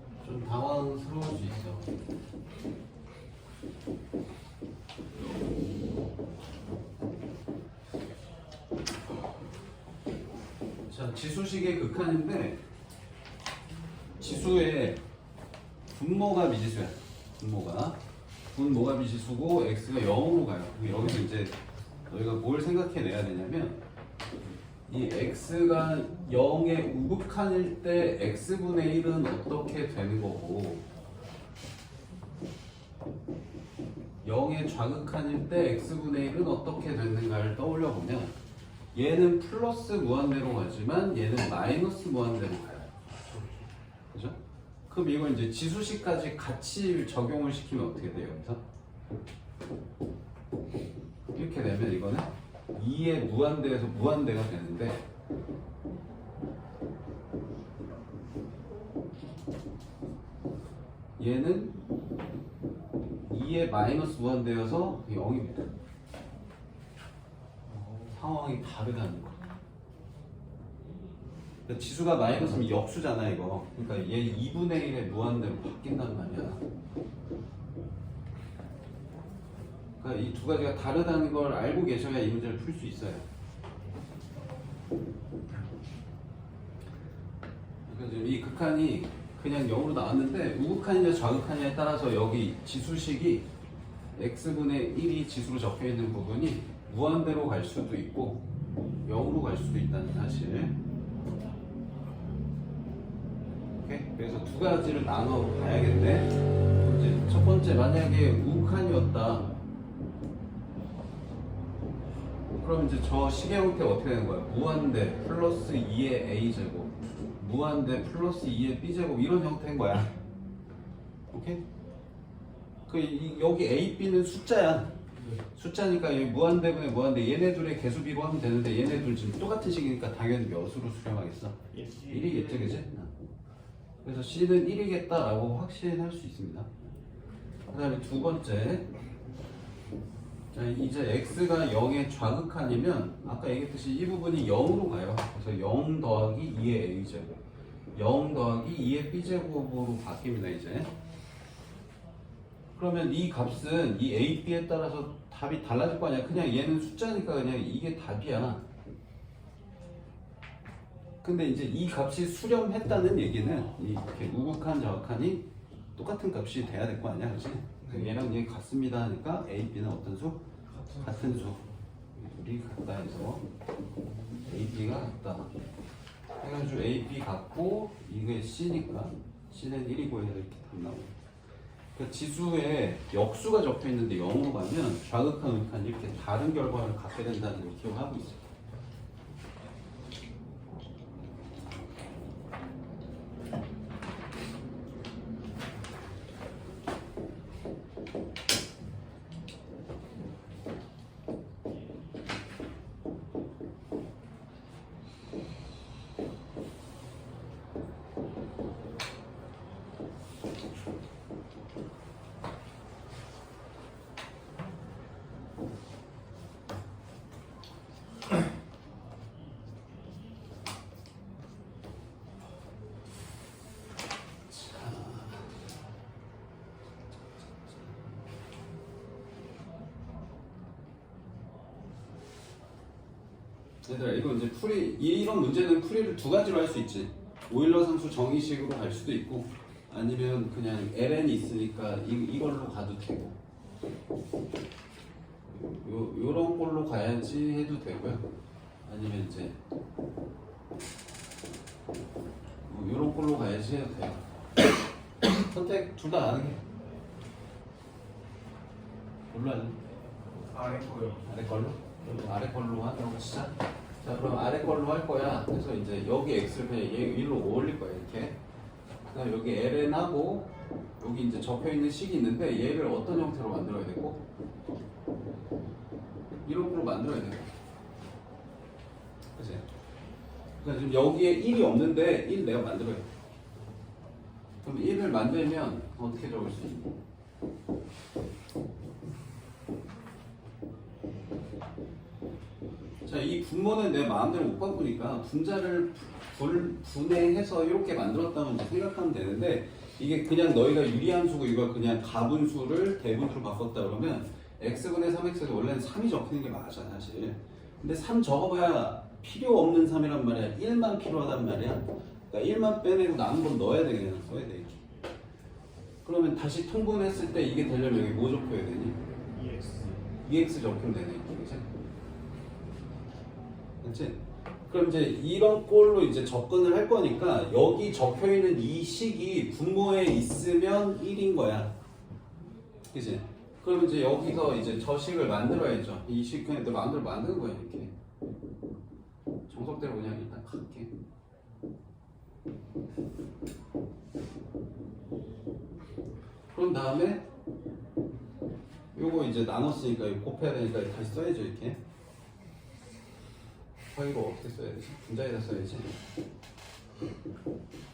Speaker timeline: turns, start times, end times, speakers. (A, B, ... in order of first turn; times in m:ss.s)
0:00.2-0:01.9 A
0:10.9-0:12.6 A
0:14.2-0:15.0 A
0:15.9-0:18.0 A
0:18.5-0:21.6 A
0:22.1-0:23.8 A
0:24.9-0:30.8 A
0:34.2-0:38.3 A
0:38.9-0:42.9 A
0:43.3-0:43.7 B
0:44.1-0:44.4 A
0:44.9-0:48.6 A
0:51.3-0:55.0 A
1:01.2-1:01.8 A
1:03.2-1:05.7 A
1:07.7-1:08.2 B
1:08.1-1:09.5 A
1:11.7-1:16.6 A
1:20.0-1:23.2 A
1:27.9-1:33.5 A
1:34.2-1:38.4 A
1:39.0-1:40.8 A
1:43.8-1:49.5 A
1:52.6-2:00.1 A
2:01.3-2:01.6 A
2:02.9-2:05.0 A
2:05.1-2:05.4 B
2:05.6-2:13.1 A
2:11.7-2:12.3 B
2:14.0-2:16.8 A
2:17.7-2:18.9 A
2:20.5-2:27.3 A
2:27.9-2:30.9 A
2:32.8-2:38.6 A
2:41.2-2:50.4 A
2:47.8-2:48.2 B
2:50.7-2:51.8 B
2:51.0-2:51.6 A
2:52.2-2:53.4 A
2:54.1-2:54.5 B
2:54.4-2:55.5 A
2:56.4-3:01.1 A
3:02.0-3:08.4 A
3:44.5-3:45.5 A
3:47.7-3:48.0 A
3:53.8-4:03.4 A
4:05.5-4:08.3 A
4:08.8-4:09.6 A
4:12.6-4:14.2 A
4:15.4-4:16.6 A
4:19.3-4:19.8 A
4:20.5-4:21.3 B
4:21.3-4:28.4 A
4:29.1-4:34.2 A
4:36.4-4:37.5 A
4:39.4-4:39.6 A
4:40.6-4:43.1 A
4:44.6-4:46.9 A
4:53.0-5:14.8 A
5:16.0-5:19.0 A
5:19.4-5:20.0 B
5:20.2-5:21.7 A
5:23.8-5:31.7 A
5:32.9-5:37.9 A
5:39.5-5:40.9 A
5:46.5-5:47.3 A
5:48.9-5:51.8 A
5:53.9-5:55.9 A